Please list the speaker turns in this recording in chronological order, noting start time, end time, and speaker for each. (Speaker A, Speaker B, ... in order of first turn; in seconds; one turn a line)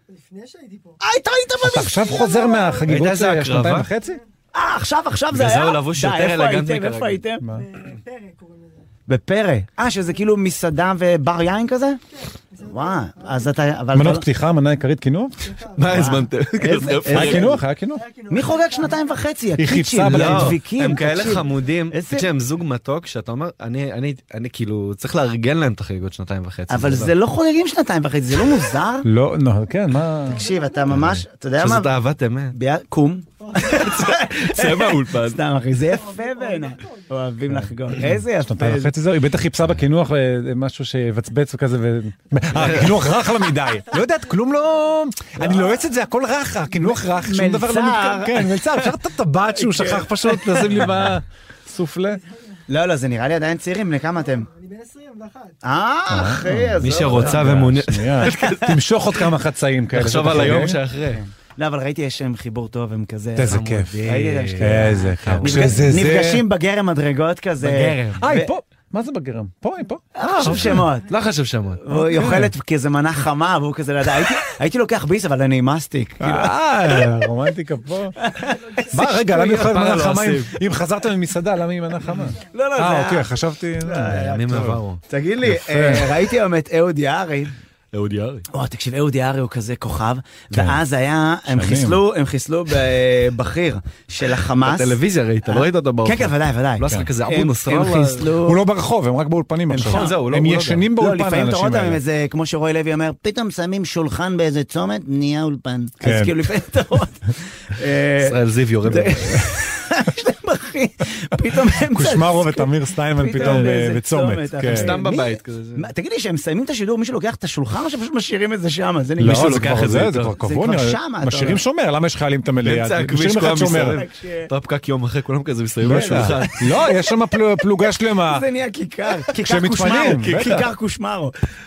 Speaker A: 0.1-1.0
Speaker B: 1.0-2.6
Speaker C: 1.6-4.2
Speaker A: 2.1-2.9
Speaker D: 2.9-3.9
Speaker B: 4.5-7.4
Speaker D: 5.3-7.2
Speaker A: 7.5-8.8
Speaker B: 9.1-12.0
Speaker A: 12.2-13.5
Speaker B: 12.7-14.3
Speaker C: 13.9-15.5
Speaker A: 15.4-16.1
Speaker D: 15.8-17.6
Speaker B: 15.9-17.5
Speaker C: 17.1-18.1
Speaker A: 17.9-19.2
Speaker B: 18.3-22.3
Speaker C: 19.6-20.6
Speaker D: 20.1-27.1
Speaker B: 26.7-29.1
Speaker C: 29.1-30.4
Speaker B: 30.3-31.9
Speaker A: 30.3-30.9
Speaker D: 30.9-32.5
Speaker B: 32.5-38.9
Speaker A: 33.4-33.9
Speaker D: 33.7-35.4
Speaker A: 35.8-37.1
Speaker C: 37.5-52.2
Speaker D: 42.6-42.9
Speaker A: 43.6-44.9
Speaker B: 45.4-45.8
Speaker B: 46.8-48.6
Speaker B: 49.5-51.1
Speaker B: 52.7-54.5
Speaker A: 54.1-55.6
Speaker B: 55.6-57.4
Speaker C: 56.1-60.8
Speaker D: 56.8-58.8
Speaker D: 59.9-61.2
Speaker B: 61.1-68.5
Speaker C: 63.4-64.0
Speaker D: 64.0-65.9
Speaker C: 64.6-66.4
Speaker D: 67.6-68.2
Speaker C: 68.2-70.9
Speaker B: 70.2-71.1
Speaker D: 70.3-71.9
Speaker B: 71.9-77.2
Speaker C: 71.9-72.5
Speaker C: 76.2-78.2
Speaker B: 78.2-79.7
Speaker C: 78.9-84.8
Speaker D: 79.3-80.5
Speaker B: 82.5-87.5
Speaker D: 84.1-85.0
Speaker C: 85.4-86.1
Speaker D: 87.9-88.5
Speaker B: 88.5-98.6
Speaker C: 90.5-90.8
Speaker C: 91.5-92.0
Speaker D: 94.6-98.3
Speaker C: 98.4-102.0
Speaker B: 99.7-100.2
Speaker D: 99.8-100.9
Speaker B: 101.0-119.9
Speaker C: 106.0-106.3
Speaker D: 108.2-109.4
Speaker C: 111.8-115.0
Speaker D: 113.4-113.7
Speaker D: 114.7-115.9
Speaker C: 119.2-124.0
Speaker D: 119.2-120.4
Speaker B: 120.4-121.6
Speaker D: 122.6-126.5
Speaker B: 123.9-124.5
Speaker C: 125.8-128.5
Speaker B: 125.8-126.9
Speaker B: 128.3-131.3
Speaker C: 129.4-130.7
Speaker D: 130.0-130.7